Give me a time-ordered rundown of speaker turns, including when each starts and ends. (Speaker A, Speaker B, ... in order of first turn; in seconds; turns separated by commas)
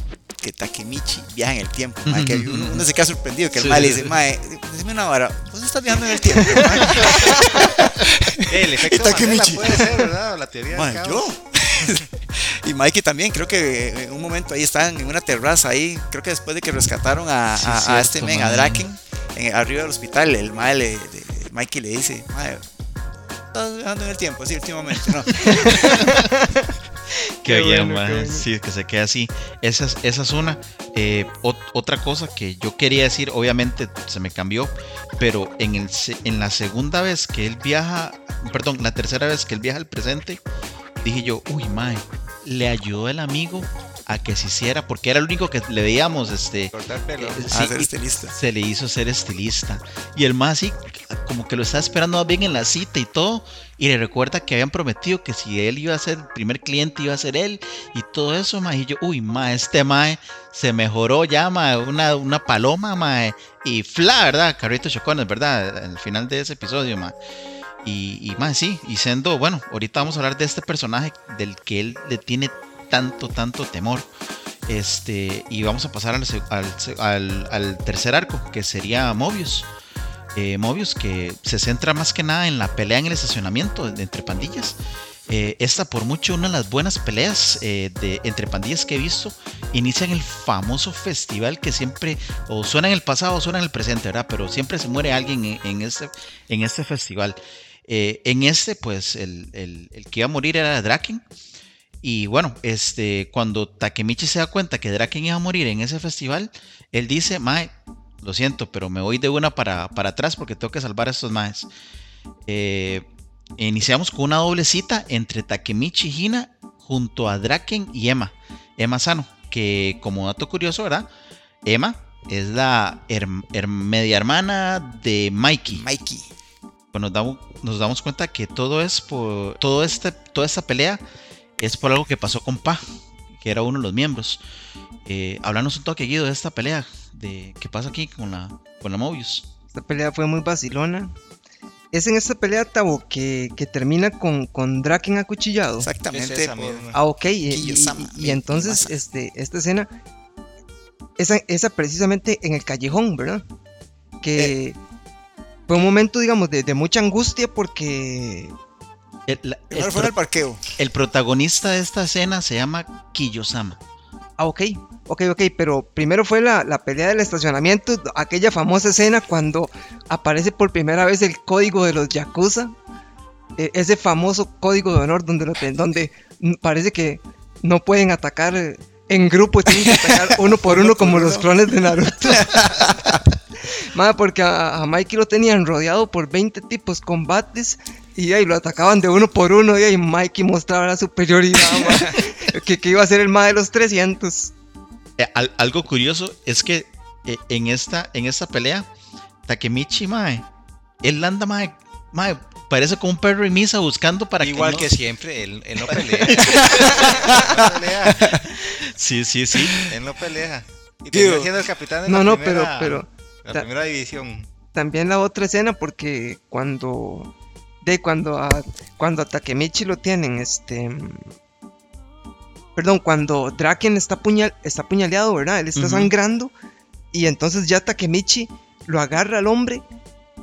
Speaker A: 0.4-10.1, Speaker B: 2.0-2.9, Speaker B: 3.5-4.2, Speaker C: 6.9-7.7, Speaker C: 8.4-11.3, Speaker A: 10.7-22.7, Speaker B: 17.6-18.8, Speaker A: 23.2-26.0, Speaker B: 25.4-26.2, Speaker D: 25.5-26.6, Speaker B: 27.4-40.4, Speaker D: 27.4-28.4, Speaker B: 41.0-67.2, Speaker C: 46.7-47.5, Speaker A: 47.5-48.3, Speaker B: 67.8-74.1, Speaker B: 74.7-79.7, Speaker B: 80.3-101.2, Speaker B: 102.0-111.7, Speaker B: 112.5-113.0, Speaker B: 113.6-121.1, Speaker B: 121.6-125.8, Speaker A: 125.7-126.3, Speaker B: 126.9-131.0, Speaker B: 131.6-132.8, Speaker B: 133.3-134.4, Speaker B: 135.0-139.5, Speaker D: 139.7-141.1, Speaker D: 141.9-145.9, Speaker A: 145.8-146.9, Speaker C: 146.1-147.0, Speaker D: 146.9-149.9, Speaker A: 147.4-148.9, Speaker D: 151.2-153.4, Speaker D: 154.2-154.8, Speaker D: 155.7-158.5, Speaker B: 159.3-160.1, Speaker A: 159.7-160.6, Speaker B: 160.8-163.8, Speaker D: 164.4-172.7, Speaker D: 173.6-182.6, Speaker A: 179.7-181.5, Speaker A: 182.3-183.2, Speaker D: 183.9-194.5, Speaker B: 195.2-198.9, Speaker B: 199.4-200.4, Speaker B: 201.0-205.0, Speaker C: 204.4-208.4, Speaker B: 206.3-207.1, Speaker A: 206.3-208.5, Speaker B: 208.8-209.8, Speaker C: 209.9-214.5, Speaker A: 211.1-211.5, Speaker D: 212.1-213.7, Speaker D: 214.7-217.3, Speaker D: 217.8-221.3, Speaker D: 222.8-226.5, Speaker B: 225.8-226.1, Speaker D: 227.1-229.8